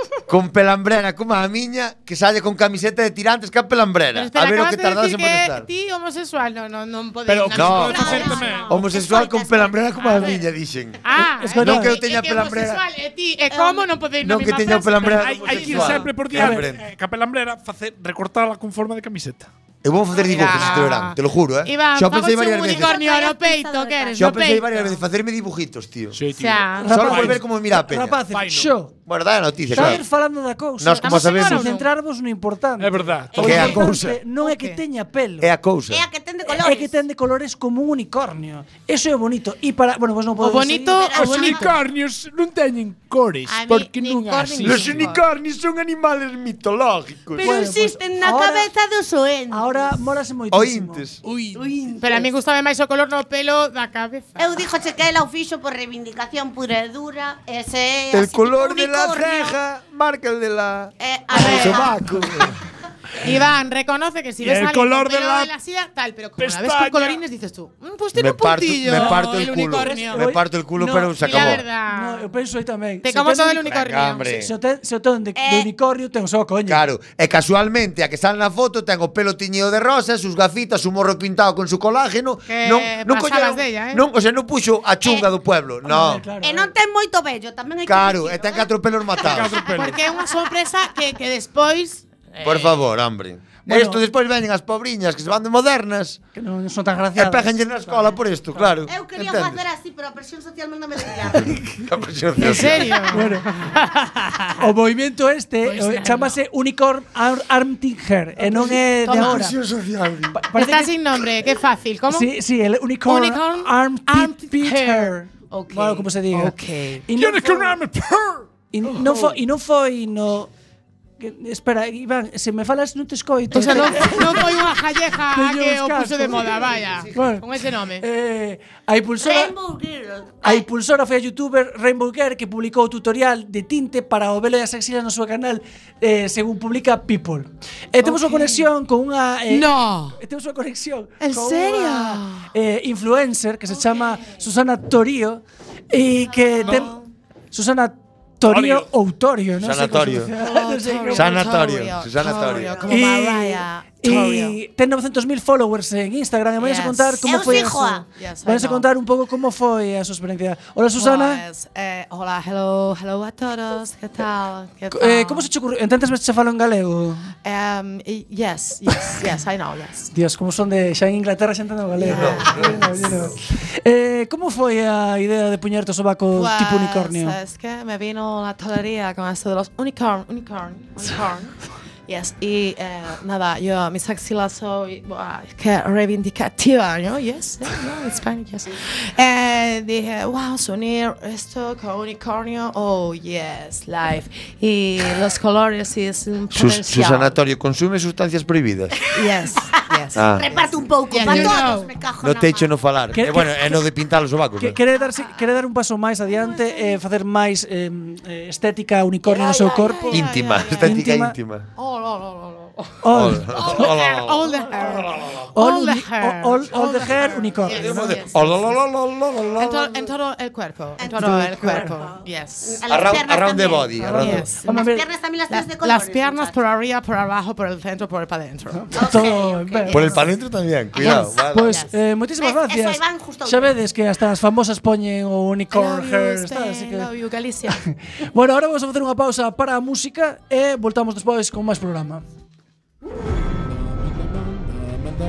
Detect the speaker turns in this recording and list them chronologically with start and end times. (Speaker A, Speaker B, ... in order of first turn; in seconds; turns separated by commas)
Speaker A: 0.3-5.7, Speaker B: 4.1-8.7, Speaker C: 7.3-8.7, Speaker A: 7.5-11.0, Speaker D: 7.8-10.4, Speaker B: 10.1-10.4, Speaker B: 11.0-16.1, Speaker E: 11.1-12.0, Speaker A: 11.6-12.8, Speaker D: 13.5-13.9, Speaker A: 14.2-16.8, Speaker C: 15.0-19.5, Speaker E: 16.3-16.6, Speaker A: 19.8-23.0, Speaker B: 20.1-25.0, Speaker D: 22.7-24.5, Speaker A: 24.2-26.2, Speaker C: 26.1-27.4, Speaker B: 26.3-27.2, Speaker E: 26.8-28.9, Speaker A: 26.9-28.2, Speaker C: 28.3-28.7, Speaker A: 29.1-30.0, Speaker E: 29.7-35.5, Speaker A: 30.8-31.7, Speaker B: 31.0-31.9, Speaker C: 32.8-33.7, Speaker D: 33.3-33.7, Speaker A: 33.4-34.2, Speaker B: 34.4-34.8, Speaker A: 35.4-36.0, Speaker D: 35.9-36.9, Speaker E: 36.5-41.1, Speaker B: 40.4-41.7, Speaker D: 40.9-41.7, Speaker C: 41.1-45.1, Speaker B: 43.5-45.2, Speaker A: 44.6-47.5, Speaker D: 47.4-49.9, Speaker E: 47.4-48.7, Speaker E: 49.5-51.0, Speaker A: 50.5-51.2, Speaker C: 51.2-51.6, Speaker D: 51.5-52.3, Speaker B: 52.0-54.6, Speaker D: 54.4-59.6, Speaker A: 58.1-62.6, Speaker D: 61.0-62.0, Speaker B: 61.3-61.9, Speaker B: 63.2-70.2, Speaker C: 64.4-65.5, Speaker C: 66.4-67.2, Speaker A: 68.1-71.6, Speaker E: 69.7-76.8, Speaker B: 71.2-72.3, Speaker B: 73.0-74.2, Speaker A: 73.7-74.5, Speaker D: 75.3-75.7, Speaker A: 76.7-86.3, Speaker B: 82.5-84.0, Speaker D: 85.0-85.3, Speaker E: 85.8-86.7, Speaker D: 86.4-89.5, Speaker A: 87.8-89.7, Speaker C: 89.2-90.0, Speaker B: 89.7-92.7, Speaker A: 92.4-96.2, Speaker E: 93.7-94.0, Speaker E: 96.3-98.1, Speaker A: 97.2-99.6, Speaker D: 98.9-101.6, Speaker A: 101.4-103.1, Speaker B: 102.3-104.5, Speaker E: 103.1-103.5, Speaker E: 104.5-109.5, Speaker B: 105.6-106.3, Speaker A: 108.5-110.4, Speaker B: 108.6-109.3, Speaker E: 110.3-111.0, Speaker B: 110.5-112.3, Speaker E: 112.1-117.8, Speaker B: 113.0-117.0, Speaker C: 117.2-118.5, Speaker E: 118.7-120.5, Speaker B: 118.8-119.4, Speaker E: 121.2-124.7, Speaker B: 123.5-128.0, Speaker E: 125.3-127.5, Speaker E: 128.0-129.5, Speaker D: 129.2-130.7, Speaker E: 130.4-146.9, Speaker B: 138.0-138.7, Speaker B: 139.5-140.2, Speaker B: 141.2-142.5, Speaker B: 146.6-147.0, Speaker E: 147.5-151.6, Speaker C: 148.4-148.9, Speaker A: 149.6-150.3, Speaker B: 150.3-154.6, Speaker A: 151.1-152.8, Speaker D: 152.3-153.0, Speaker E: 152.9-161.4, Speaker B: 156.6-158.9, Speaker D: 157.2-158.1, Speaker B: 160.9-165.5, Speaker E: 164.9-167.3, Speaker B: 167.4-170.1, Speaker E: 170.1-177.4, Speaker A: 172.0-173.3, Speaker B: 172.0-172.7, Speaker B: 176.3-197.3, Speaker A: 196.5-199.0, Speaker B: 199.1-201.9, Speaker D: 199.7-202.7, Speaker A: 200.1-200.5, Speaker A: 201.2-201.6, Speaker A: 202.2-204.8, Speaker E: 203.1-203.9, Speaker E: 204.6-210.3, Speaker B: 206.3-207.0, Speaker B: 209.3-211.0, Speaker A: 210.1-211.7, Speaker E: 210.8-211.3, Speaker B: 211.8-212.9, Speaker E: 213.0-213.9, Speaker A: 213.1-215.4, Speaker B: 213.5-218.6, Speaker E: 215.5-218.2, Speaker A: 217.7-220.1, Speaker B: 219.6-222.8, Speaker D: 221.0-226.6, Speaker E: 221.2-221.5, Speaker A: 222.9-224.5, Speaker B: 224.1-224.9, Speaker E: 224.2-225.0, Speaker B: 225.5-229.2, Speaker E: 228.7-230.2, Speaker D: 228.9-230.0, Speaker B: 229.8-230.2, Speaker A: 229.9-231.8, Speaker E: 231.0-237.1, Speaker B: 231.0-231.9, Speaker D: 232.4-233.7, Speaker B: 235.7-237.8, Speaker E: 237.8-242.2